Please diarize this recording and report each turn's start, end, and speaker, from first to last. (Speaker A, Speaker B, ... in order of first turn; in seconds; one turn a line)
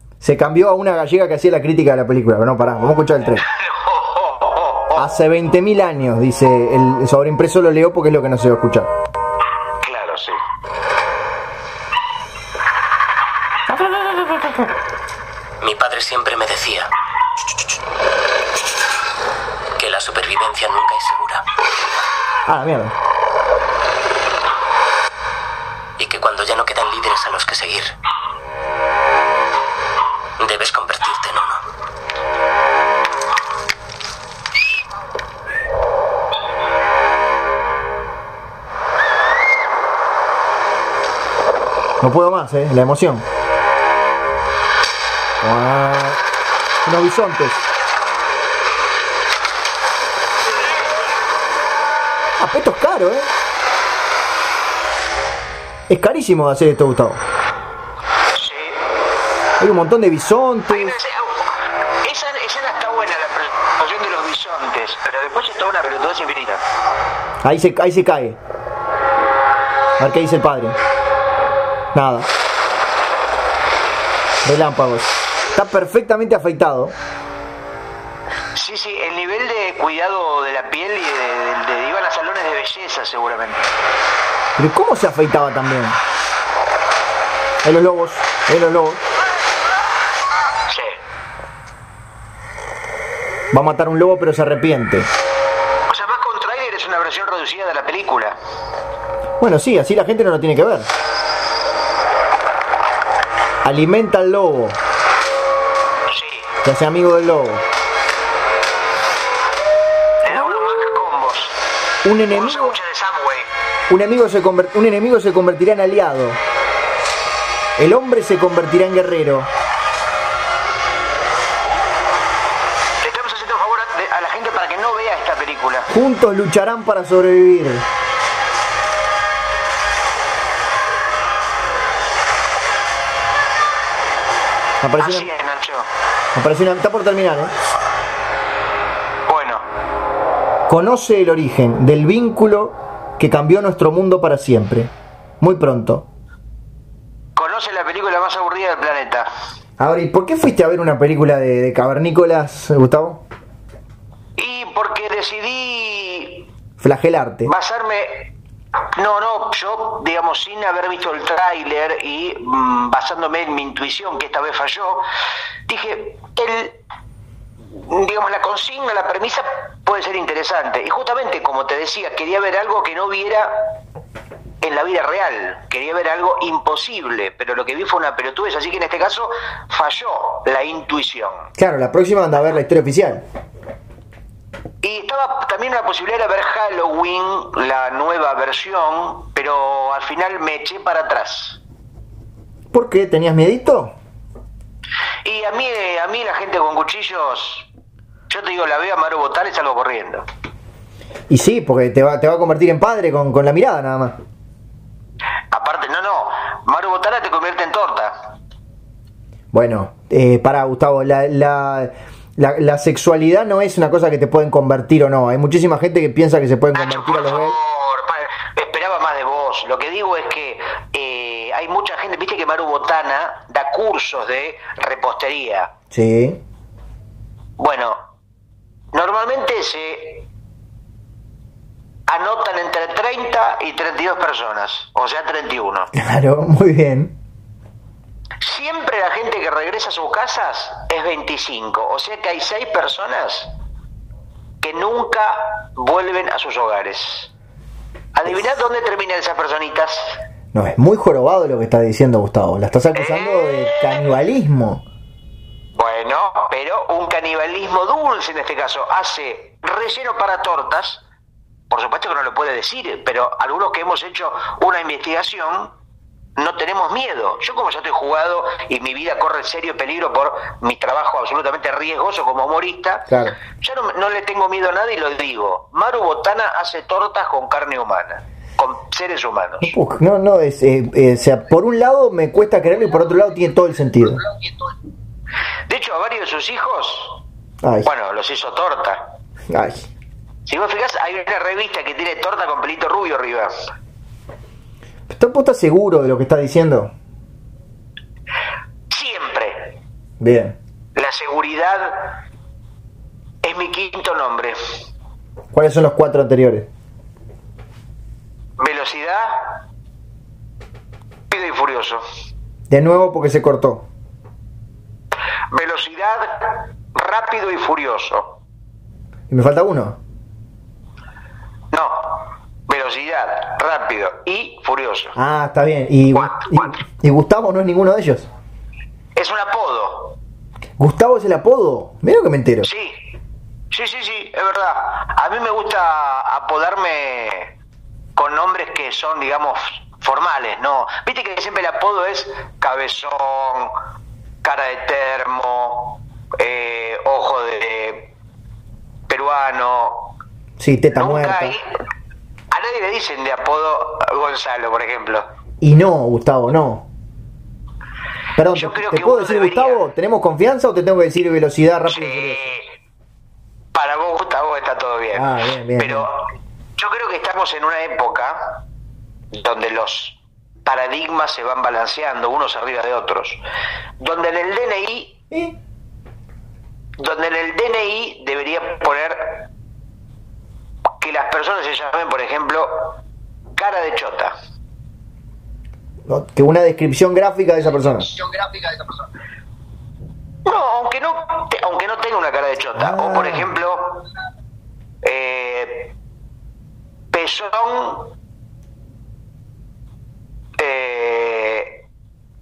Speaker A: 0.2-3.5
Speaker B: 3.5-5.1
Speaker A: 4.9-8.9
Speaker B: 9.8-10.4
Speaker A: 13.7-14.6
Speaker C: 15.6-16.9
Speaker C: 19.8-21.4
Speaker A: 22.5-22.9
Speaker C: 26.0-27.9
Speaker C: 30.4-31.6
Speaker A: 42.0-43.2
Speaker A: 45.4-46.2
Speaker A: 46.8-47.6
Speaker A: 52.4-53.3
Speaker A: 55.9-57.2
Speaker B: 58.3-58.8
Speaker A: 59.6-61.0
Speaker B: 60.7-66.6
Speaker A: 67.4-68.4
Speaker A: 70.0-70.8
Speaker A: 71.9-72.3
Speaker A: 74.4-76.9
Speaker B: 78.5-83.7
Speaker A: 84.6-86.0
Speaker A: 87.6-89.0
Speaker B: 90.7-91.0
Speaker A: 93.5-95.1
Speaker B: 95.9-98.3
Speaker A: 99.4-100.9
Speaker A: 103.6-104.8
Speaker B: 106.1-106.5
Speaker A: 106.6-107.6
Speaker B: 110.2-111.6
Speaker A: 112.0-112.8
Speaker B: 112.3-113.5
Speaker A: 113.9-116.4
Speaker A: 117.8-119.5
Speaker B: 123.0-125.9
Speaker A: 125.9-127.9
Speaker A: 134.8-135.3
Speaker B: 135.0-135.9
Speaker A: 136.3-137.5
Speaker B: 139.3-139.6
Speaker A: 140.7-146.0
Speaker B: 147.3-149.3
Speaker A: 149.8-153.2
Speaker B: 154.4-156.5
Speaker A: 156.8-157.5
Speaker B: 157.4-158.3
Speaker B: 158.9-165.0
Speaker B: 165.7-166.8
Speaker B: 167.7-173.7
Speaker B: 174.6-181.5
Speaker A: 181.6-183.2
Speaker B: 184.8-191.6
Speaker A: 192.7-193.9
Speaker B: 195.2-197.7
Speaker B: 198.3-200.2
Speaker A: 201.3-204.2
Speaker B: 205.5-208.1
Speaker A: 209.5-217.6
Speaker B: 216.7-225.7
Speaker A: 225.9-226.4
Speaker B: 227.6-228.0
Speaker B: 228.9-230.2
Speaker B: 232.1-235.9
Speaker A: 235.9-237.1
Speaker B: 238.4-243.5
Speaker B: 244.6-247.3
Speaker B: 248.1-250.2
Speaker A: 250.5-254.8
Speaker B: 252.9-254.0
Speaker B: 255.8-261.0
Speaker B: 261.7-265.7
Speaker B: 266.4-279.7
Speaker A: 273.1-273.4
Speaker A: 279.6-284.2
Speaker B: 285.7-287.2
Speaker A: 287.6-287.9
Speaker B: 287.8-289.1
Speaker A: 289.5-289.9
Speaker B: 290.4-293.5
Speaker A: 295.1-296.9
Speaker B: 298.9-299.8
Speaker A: 300.2-300.6
Speaker B: 300.9-302.1
Speaker B: 303.4-304.6
Speaker A: 305.5-306.7
Speaker B: 308.6-309.6
Speaker B: 311.3-312.0
Speaker A: 312.7-313.9
Speaker B: 315.5-318.4
Speaker A: 319.3-320.0
Speaker B: 321.7-325.1
Speaker A: 325.1-328.3
Speaker B: 326.1-326.7
Speaker B: 329.1-330.1
Speaker A: 330.8-332.7
Speaker B: 332.6-333.0
Speaker B: 333.7-337.5
Speaker B: 338.1-343.7
Speaker B: 344.4-348.1
Speaker B: 349.1-350.1
Speaker A: 350.6-351.6
Speaker B: 350.9-351.8
Speaker B: 352.5-355.3
Speaker A: 355.6-356.9
Speaker A: 358.4-362.6
Speaker B: 358.5-359.8
Speaker B: 361.9-362.7
Speaker B: 363.7-366.2
Speaker A: 365.1-366.1
Speaker B: 366.8-368.6
Speaker B: 369.3-373.4
Speaker B: 374.0-375.2
Speaker B: 377.0-379.5
Speaker B: 381.0-383.0
Speaker B: 383.5-384.3
Speaker A: 386.1-388.1
Speaker B: 390.4-394.0
Speaker A: 392.8-393.5
Speaker B: 395.0-395.9
Speaker B: 397.1-398.1
Speaker B: 400.6-401.8